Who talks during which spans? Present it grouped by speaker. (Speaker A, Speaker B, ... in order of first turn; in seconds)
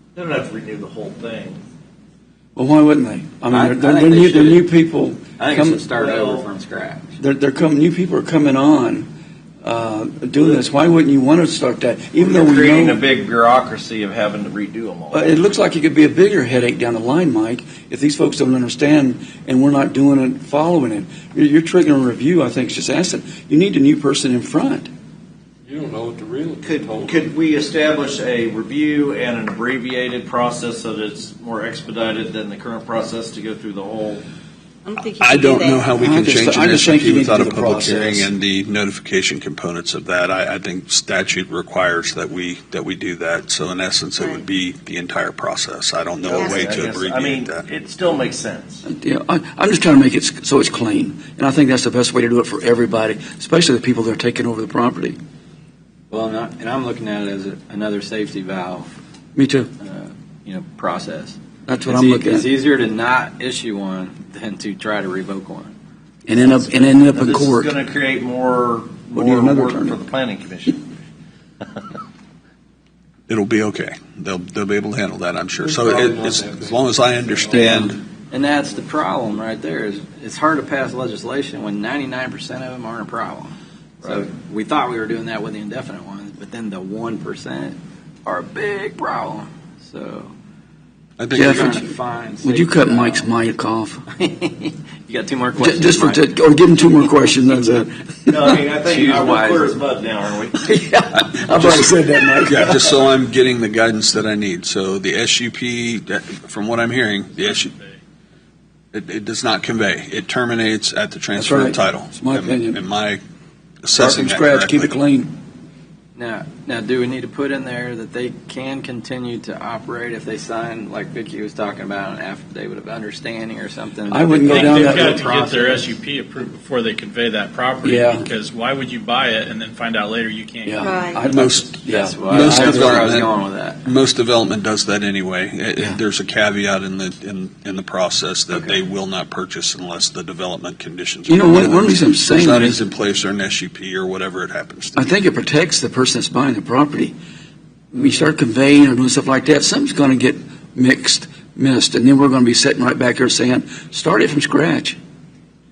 Speaker A: 0.1-1.6, 5.9-6.5, 12.2-15.4, 26.6-34.2, 46.3-48.8, 67.1-70.9, 98.3-100.6
Speaker B: 2.5-5.8, 7.2-9.1, 9.6-13.0, 15.1-24.9, 36.0-38.3, 48.8-55.2, 59.3-59.7, 61.7-62.5, 66.3-67.7, 69.1-70.0, 77.6-77.9, 91.3-91.9, 92.4-94.0, 95.6-98.5, 100.6-102.8, 111.3-112.8, 113.9-115.3, 124.1-125.2, 127.8-128.2, 130.7-133.2, 141.3-142.8, 144.9-147.2, 147.9-155.0
Speaker C: 3.5-4.6, 5.4-7.2, 56.1-58.9, 59.8-65.7, 78.3-90.3, 91.3-93.3, 94.1-96.3, 98.8-99.8, 116.2-125.9, 131.9-133.8, 138.5-138.8
Speaker D: 25.7-26.6, 75.6-76.8
Speaker E: 26.6-27.2, 34.8-36.0, 44.2-44.4, 46.4-46.8, 130.8-131.2
Speaker F: 35.0-47.6, 73.3-78.0, 91.2-91.8, 101.2-101.9, 102.4-107.7, 108.9-113.2, 113.8-114.9, 131.3-131.8, 132.3-133.3, 133.8-145.1
Speaker G: 107.3-108.0, 124.5-131.1